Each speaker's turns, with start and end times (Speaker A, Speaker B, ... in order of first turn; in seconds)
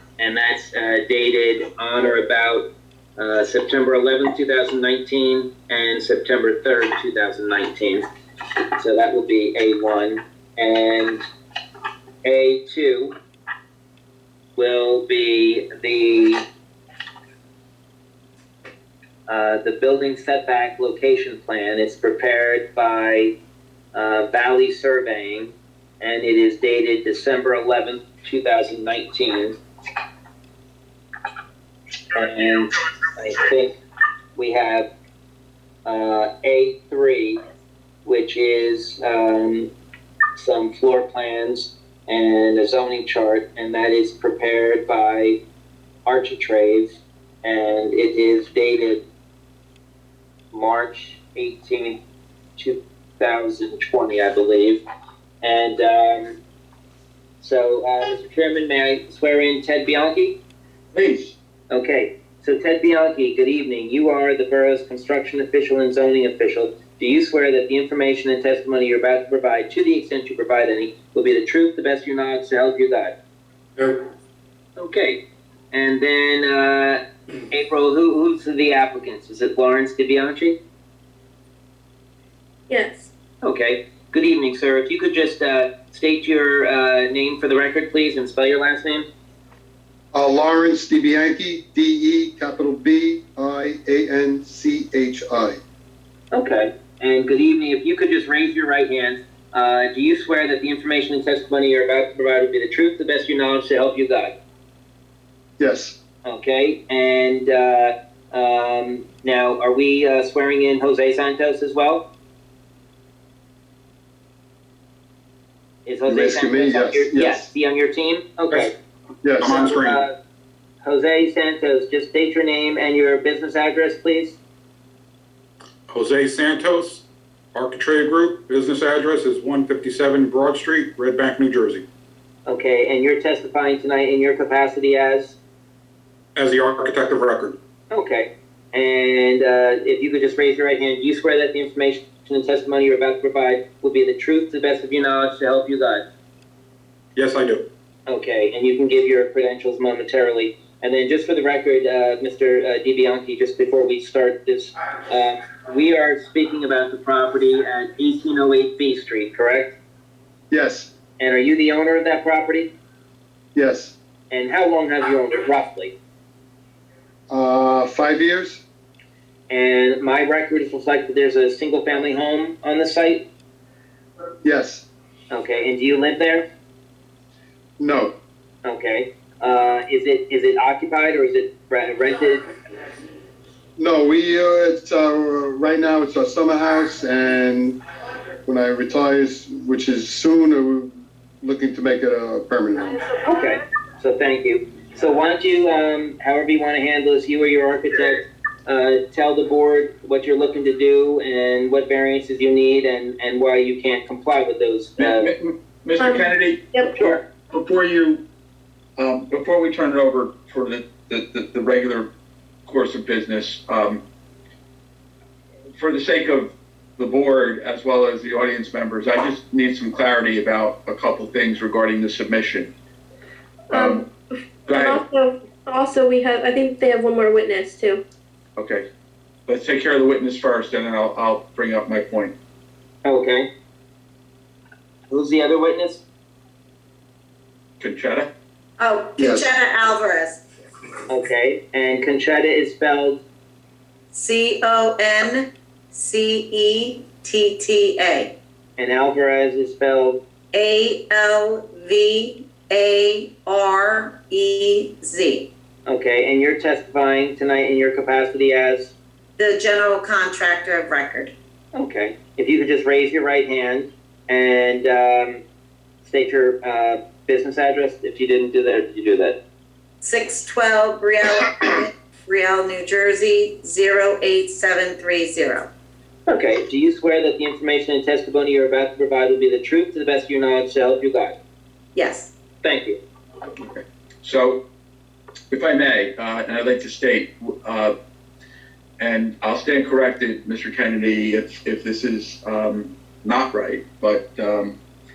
Speaker A: 0.2-2.6, 3.2-8.1, 8.8-11.2, 12.2-13.2, 14.6-16.4, 19.3-23.3, 23.9-29.6, 32.1-33.8, 34.4-34.9, 35.9-37.4, 38.0-39.7, 40.4-45.4, 46.1-49.0, 50.5-52.0, 52.6-54.8, 55.4-56.4, 57.4-60.4, 61.7-73.2, 74.8-75.2, 75.7-80.6, 83.4-89.1, 96.3-104.3, 106.2-112.0, 115.9-118.7, 119.5-120.1, 120.8-124.4, 132.5-135.4, 137.9-146.0, 148.1-159.8, 161.2-162.7, 164.3-165.9, 169.5-173.2, 175.3-176.4, 178.6-182.5, 193.2-205.3, 207.0-207.2, 233.1-233.5, 235.1-236.0, 241.1-243.2, 248.8-250.2, 255.9-258.9, 261.7-265.4, 266.0-269.4, 276.3-281.4, 282.6-283.0
Speaker B: 60.9-61.3, 205.0-208.2, 209.0-212.1, 212.7-214.0, 215.8-222.7, 223.7-224.1, 224.7-225.0, 228.6-228.9, 229.5-232.3, 237.8-238.3, 283.6-284.6, 285.5-287.9, 289.0-294.8
Speaker C: 82.7-83.1, 206.0-206.9, 223.7-224.1, 224.7-228.0
Speaker D: 90.1-95.6, 105.6-106.0, 116.1-117.5, 119.2-119.5, 160.5-160.9, 163.6-163.9, 167.3-168.6, 174.4-174.8, 177.8-178.1, 183.8-187.8, 188.4-193.0, 239.2-239.5
Speaker E: 119.4-120.0, 125.9-131.8, 136.3-137.6, 147.2-147.7
Speaker F: 238.8-240.4, 244.1-248.4, 250.5-255.5, 259.4-261.3, 270.0-275.7, 281.9-282.3